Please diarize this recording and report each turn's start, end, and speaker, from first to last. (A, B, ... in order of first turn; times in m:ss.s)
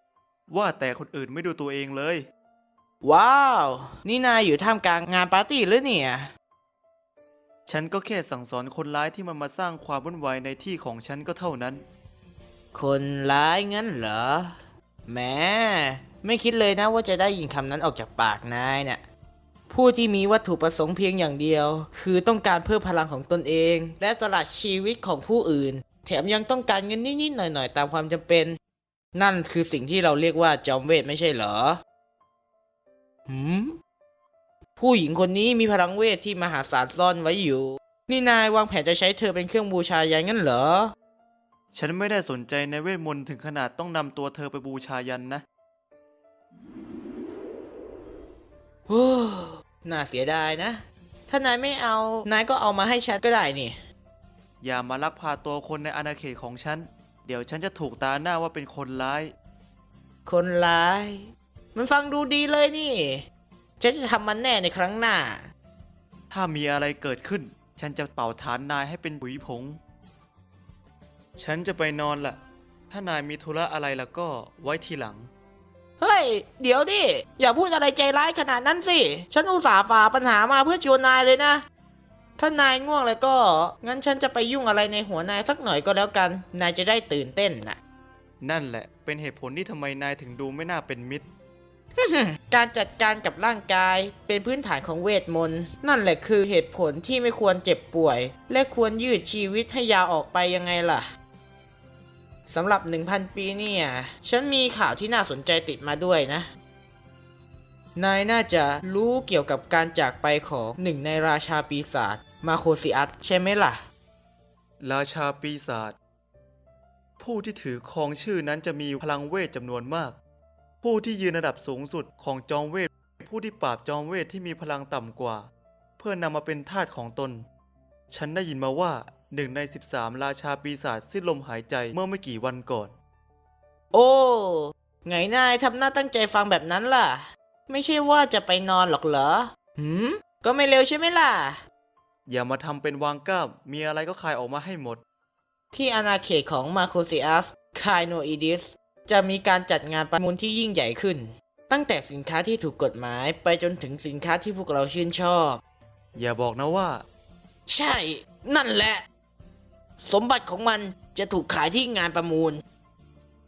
0:00.5-0:02.3 A
0:03.0-0:06.3 B
0:07.7-0:11.8 A
0:12.7-0:19.0 B
0:19.7-0:28.6 B
0:29.1-0:31.8 B
0:33.3-0:33.8 B
0:34.8-0:40.9 B
0:41.7-0:45.4 A
0:48.9-0:53.8 B
0:54.6-0:59.3 A
1:00.2-1:03.2 B
1:03.8-1:05.5 B
1:06.3-1:09.8 A
1:11.4-1:12.4 A
1:12.9-1:15.3 A
1:16.0-1:21.6 B
1:22.4-1:27.8 B
1:28.4-1:31.2 A
1:32.0-1:41.0 B
1:42.5-1:46.5 B
1:47.9-1:53.8 B
1:54.8-1:56.0 A
1:57.2-2:00.2 A
2:00.8-2:07.4 A
2:08.1-2:12.9 A
2:13.9-2:21.6 B
2:22.3-2:25.0 A
2:25.7-2:35.6 B
2:36.1-2:37.0 A
2:37.7-2:39.0 B
2:40.0-2:42.6 B